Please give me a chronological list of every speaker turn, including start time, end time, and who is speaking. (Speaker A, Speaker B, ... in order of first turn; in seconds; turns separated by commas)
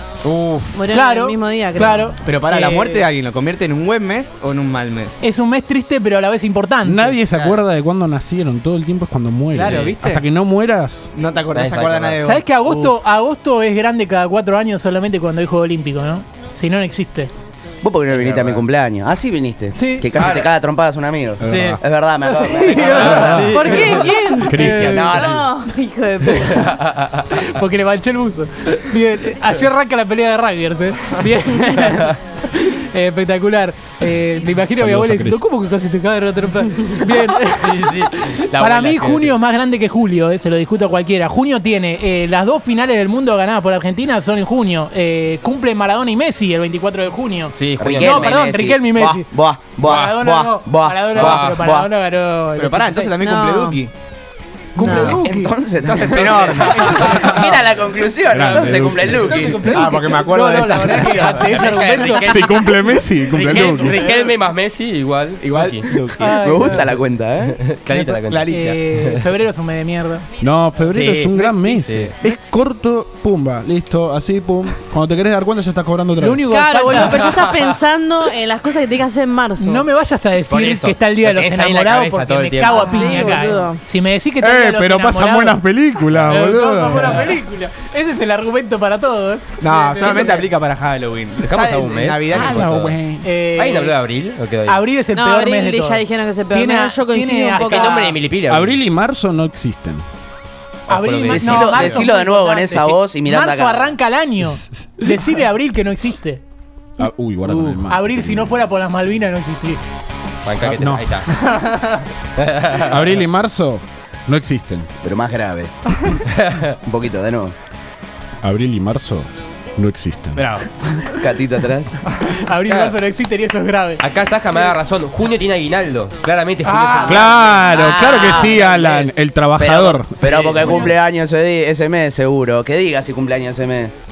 Speaker A: 0.2-0.9, Speaker B: 0.7-2.2, Speaker C: 0.9-3.0, Speaker A: 2.2-5.2, Speaker C: 5.2-7.2, Speaker D: 6.8-11.1, Speaker A: 7.3-7.6, Speaker A: 9.5-10.2, Speaker E: 9.6-9.9, Speaker A: 11.1-12.9, Speaker E: 11.5-12.2, Speaker C: 12.2-17.3, Speaker F: 17.8-24.0, Speaker E: 18.1-18.6, Speaker C: 19.7-20.1, Speaker E: 20.1-20.5, Speaker E: 21.4-21.8, Speaker D: 21.4-21.8, Speaker C: 22.2-25.2, Speaker E: 22.5-23.9, Speaker D: 23.0-25.4, Speaker B: 23.5-26.6, Speaker F: 24.8-25.4, Speaker C: 26.3-26.7, Speaker E: 26.4-27.5, Speaker C: 27.3-49.3, Speaker D: 34.7-35.4, Speaker E: 37.4-39.4, Speaker E: 47.5-48.4, Speaker F: 47.8-51.9, Speaker E: 49.8-50.1, Speaker C: 49.8-53.1, Speaker E: 51.1-51.6, Speaker A: 52.5-53.9, Speaker B: 53.2-53.8, Speaker C: 54.8-55.5, Speaker B: 54.8-55.2, Speaker F: 55.2-59.9, Speaker A: 55.8-57.5, Speaker C: 56.6-57.4, Speaker D: 58.3-59.5, Speaker C: 58.9-62.4, Speaker A: 59.4-61.7, Speaker E: 61.3-62.7, Speaker D: 62.2-64.1, Speaker A: 63.3-64.3, Speaker E: 63.4-65.9, Speaker A: 65.4-66.9, Speaker C: 66.2-66.8, Speaker F: 66.4-67.6, Speaker E: 67.4-68.5, Speaker C: 67.9-70.2, Speaker A: 68.3-68.8, Speaker D: 70.4-76.4, Speaker E: 70.9-72.1, Speaker C: 71.4-72.4, Speaker C: 76.2-77.4, Speaker B: 76.5-79.9, Speaker E: 77.0-77.7, Speaker C: 79.6-85.6, Speaker E: 80.5-82.9, Speaker B: 82.6-83.8, Speaker A: 82.7-83.2, Speaker D: 84.4-87.4, Speaker C: 86.2-90.4, Speaker A: 89.6-93.2, Speaker E: 91.4-93.0, Speaker D: 92.3-92.7, Speaker C: 93.2-94.0, Speaker E: 93.5-94.8, Speaker C: 94.7-98.1, Speaker B: 95.1-98.2, Speaker E: 97.6-98.8, Speaker D: 98.5-100.0, Speaker C: 100.9-106.4, Speaker E: 100.9-101.9, Speaker F: 101.3-103.9, Speaker A: 101.4-102.0, Speaker D: 107.0-108.6, Speaker A: 107.4-107.8, Speaker C: 107.9-109.8, Speaker E: 110.4-111.3, Speaker D: 110.6-111.3, Speaker E: 112.3-113.2, Speaker D: 112.8-114.9, Speaker F: 115.0-115.7, Speaker E: 116.4-116.7, Speaker F: 116.8-117.5, Speaker D: 118.4-120.4, Speaker A: 120.3-121.2, Speaker F: 121.2-122.0, Speaker C: 122.2-124.0, Speaker E: 122.7-122.9, Speaker E: 124.0-127.4, Speaker C: 126.6-127.4, Speaker D: 127.0-130.9, Speaker F: 127.6-128.4, Speaker B: 127.7-128.6, Speaker F: 129.5-133.9, Speaker E: 130.2-130.8, Speaker C: 130.6-130.9